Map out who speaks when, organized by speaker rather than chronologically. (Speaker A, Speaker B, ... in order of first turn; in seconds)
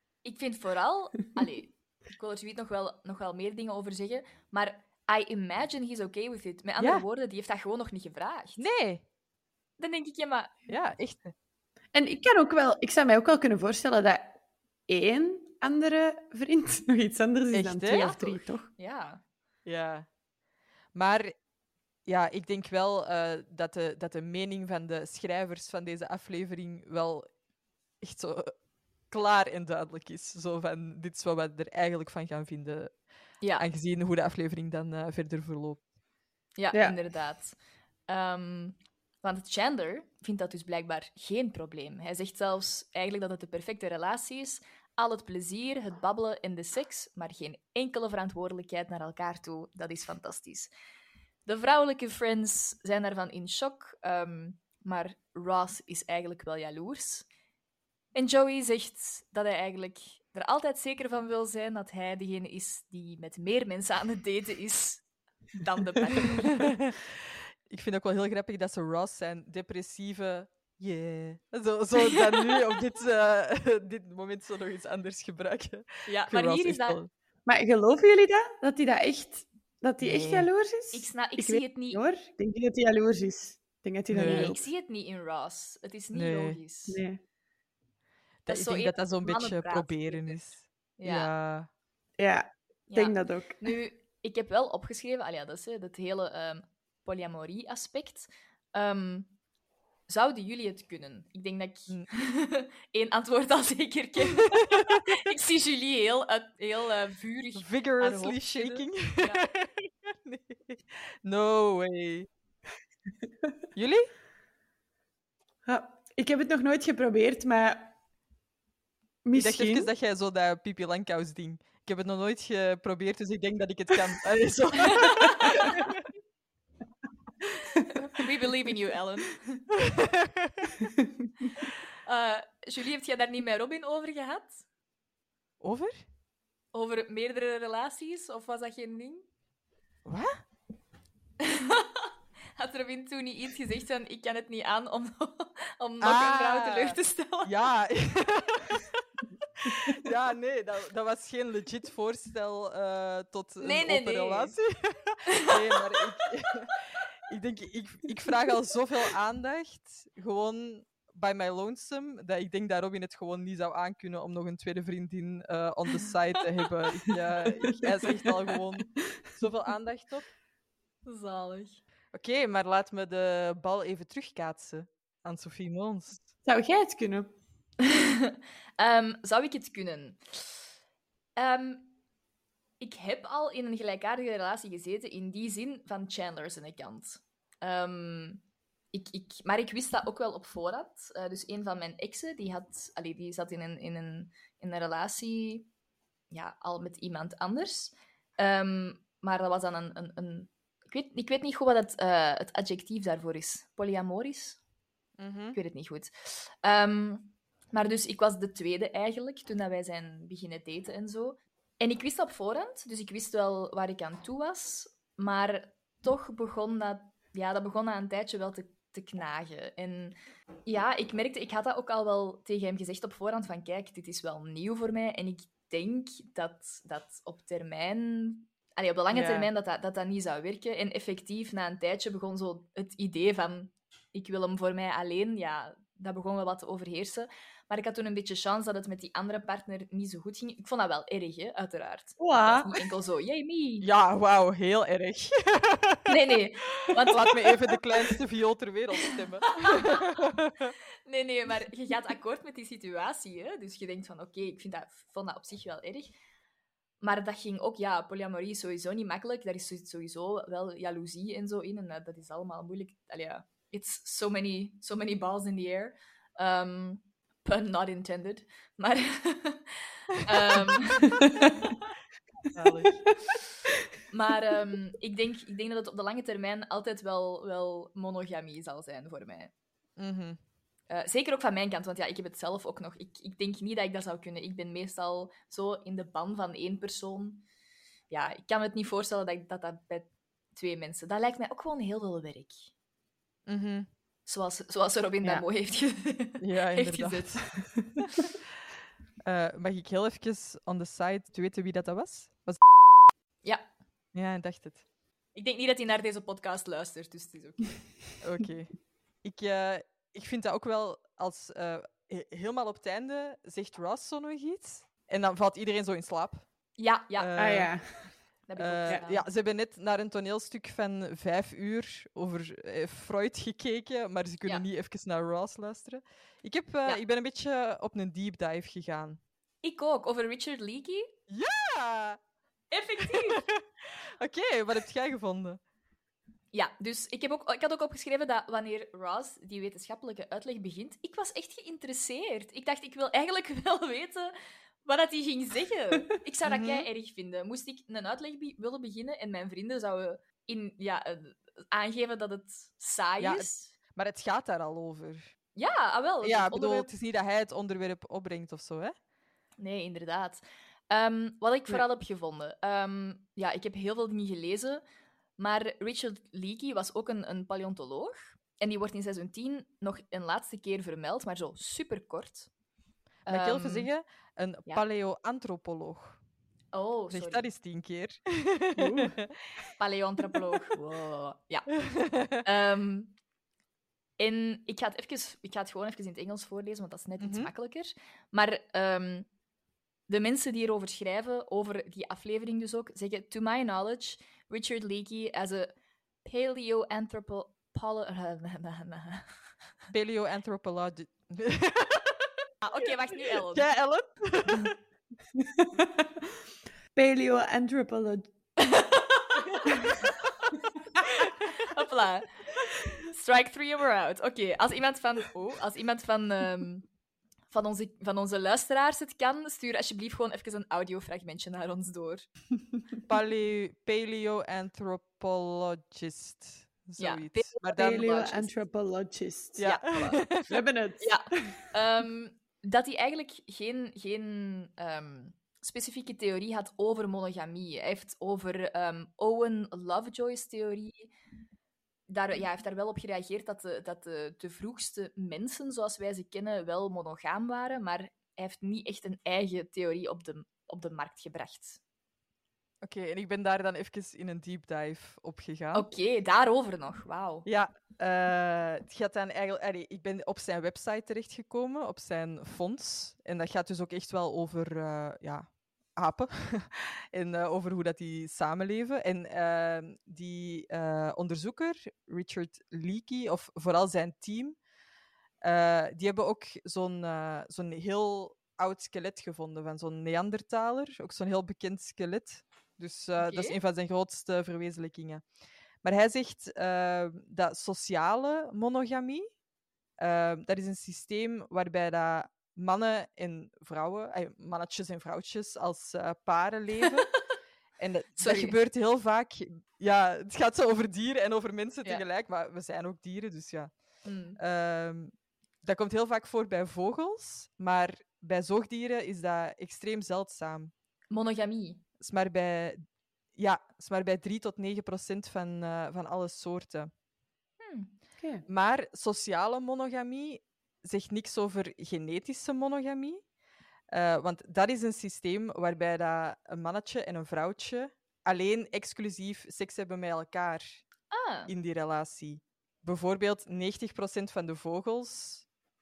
Speaker A: 0.2-8.7, 9.8-10.5, 17.9-19.2, 36.6-37.5, 38.1-50.7, 51.5-57.2, 58.1-65.0, 65.5-66.7, 76.1-77.0, 80.9-82.0, 84.2-87.0, 88.5-90.4, 91.0-91.3, 92.9-99.3, 100.1-109.4, 125.0-125.5, 127.9-129.6, 132.0-134.6, 136.7-139.2, 141.4-147.6, 153.6-154.6, 155.3-155.8, 171.1-171.8, 177.8-180.6, 181.4-181.9, 182.8-188.4, 188.9-195.7, 196.3-204.6, 205.5-243.9, 246.1-247.7, 249.6-250.1, 251.1-256.1, 257.0-271.8, 274.1-279.5, 280.9-287.4, 288.1-292.7, 294.2-297.4, 305.3-307.8, 316.8-317.3, 318.5-319.2, 329.6-331.1, 332.7-333.4, 336.5-353.7, 355.6-356.9, 359.6-364.8, 365.4-372.5, 373.2-373.9, 376.7-377.5, 379.8-381.7, 382.4-383.1, 384.2-389.3, 390.1-395.7, 396.2-399.3, 402.6-403.7, 408.6-410.2, 411.0-416.9, 417.5-422.3, 427.0-428.5, 429.6-430.2, 431.0-441.1, 442.1-451.8, 455.7-457.4, 483.2-483.6, 498.2-498.6, 504.0-504.4, 511.1-511.8, 517.6-517.9, 531.1-531.5
Speaker B: 6.8-7.0, 8.6-9.0, 10.7-11.3, 17.5-18.1, 19.6-20.1, 20.9-21.3, 22.1-27.3, 28.0-28.5, 29.1-32.9, 33.6-35.8, 66.6-67.0, 67.7-77.1, 80.0-80.5, 84.1-84.5, 86.1-86.6, 88.5-91.7, 104.3-105.0, 107.5-112.3, 113.7-114.1, 119.3-126.0, 129.8-130.8, 135.6-136.0, 140.1-140.4, 146.0-148.9, 149.6-170.2, 172.1-176.2, 205.2-205.6, 229.1-229.5, 243.8-246.1, 246.8-250.7, 272.5-273.0, 280.0-280.4, 293.5-293.9, 296.4-297.4, 299.2-302.6, 304.1-304.8, 308.2-308.7, 309.2-316.4, 317.1-317.7, 318.6-329.2, 331.3-332.2, 333.1-333.6, 334.2-335.6, 346.4-346.9, 353.2-355.3, 356.2-358.9, 373.2-376.2, 377.1-379.3, 381.8-382.4, 387.2-387.5, 399.9-402.2, 403.5-404.7, 423.1-428.2, 429.6-430.5, 452.8-455.9, 457.4-474.6, 475.4-485.2, 485.8-489.3, 490.0-497.1, 497.8-503.7, 504.4-505.1, 505.6-510.7, 512.0-512.8, 513.4-516.9, 518.5-523.2, 523.9-530.8, 531.5-535.4
Speaker C: 11.9-14.4, 14.9-18.7, 77.5-84.6, 86.9-87.2, 92.2-93.7, 115.7-117.9, 119.2-119.9, 176.4-177.3, 242.2-242.8, 317.4-318.1, 378.8-379.1, 405.4-406.4, 406.9-408.3, 427.8-429.7, 430.5-431.6, 518.2-518.4